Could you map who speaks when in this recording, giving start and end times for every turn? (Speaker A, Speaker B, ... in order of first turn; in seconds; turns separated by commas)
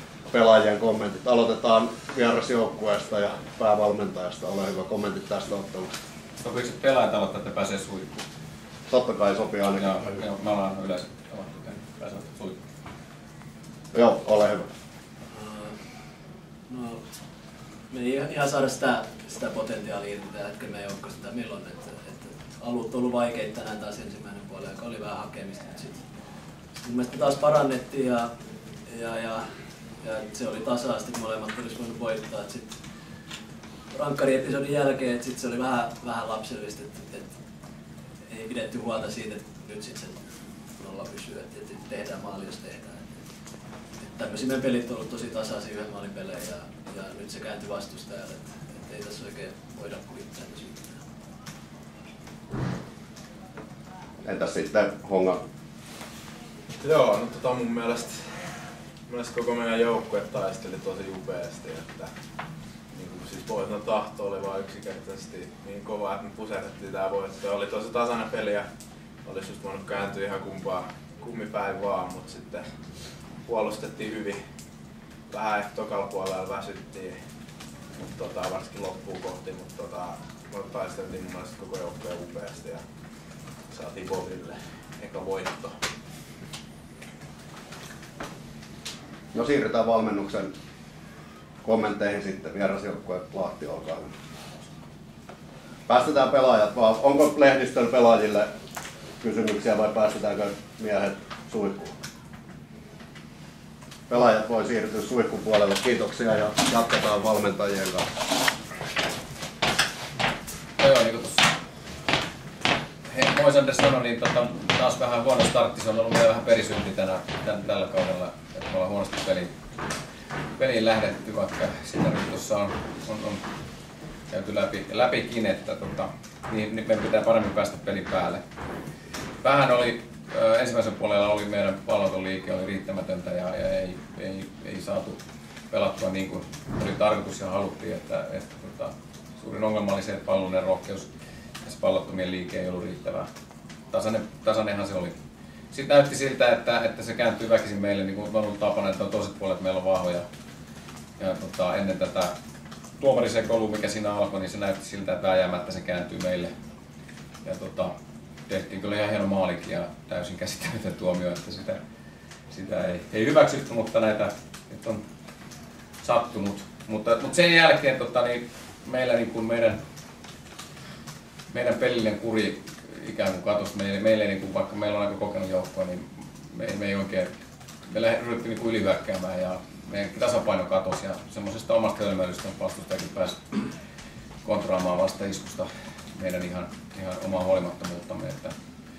Speaker A: 0.3-5.9, Speaker B: 6.4-8.2, Speaker A: 8.9-10.1, Speaker B: 9.7-12.6, Speaker A: 13.9-14.7, Speaker C: 15.3-15.7, Speaker C: 16.7-17.0, Speaker C: 17.9-22.0, Speaker C: 22.6-26.0, Speaker C: 26.8-28.2, Speaker C: 28.9-29.4, Speaker C: 30.0-32.7, Speaker C: 34.0-37.3, Speaker C: 38.3-40.2, Speaker C: 40.8-43.0, Speaker C: 44.1-50.9, Speaker A: 54.2-55.4, Speaker D: 56.8-58.2, Speaker D: 59.1-62.1, Speaker D: 62.9-68.7, Speaker D: 69.2-72.7, Speaker D: 73.5-74.4, Speaker D: 75.3-77.2, Speaker D: 78.0-82.8, Speaker D: 83.7-85.8, Speaker A: 89.3-90.5, Speaker A: 91.6-94.1, Speaker A: 95.9-98.5, Speaker A: 99.2-102.0, Speaker A: 104.1-108.0, Speaker B: 110.8-111.5, Speaker B: 113.1-119.5, Speaker B: 120.6-123.4, Speaker B: 124.3-128.4, Speaker B: 129.4-135.2, Speaker B: 135.7-141.1, Speaker B: 141.6-143.3, Speaker B: 143.9-145.2, Speaker B: 145.7-150.3, Speaker B: 151.2-152.3, Speaker B: 153.0-156.5, Speaker B: 157.4-157.9, Speaker B: 158.5-161.8, Speaker B: 162.5-165.0, Speaker B: 166.0-169.8, Speaker B: 171.5-177.3, Speaker B: 177.9-183.6, Speaker B: 184.4-188.6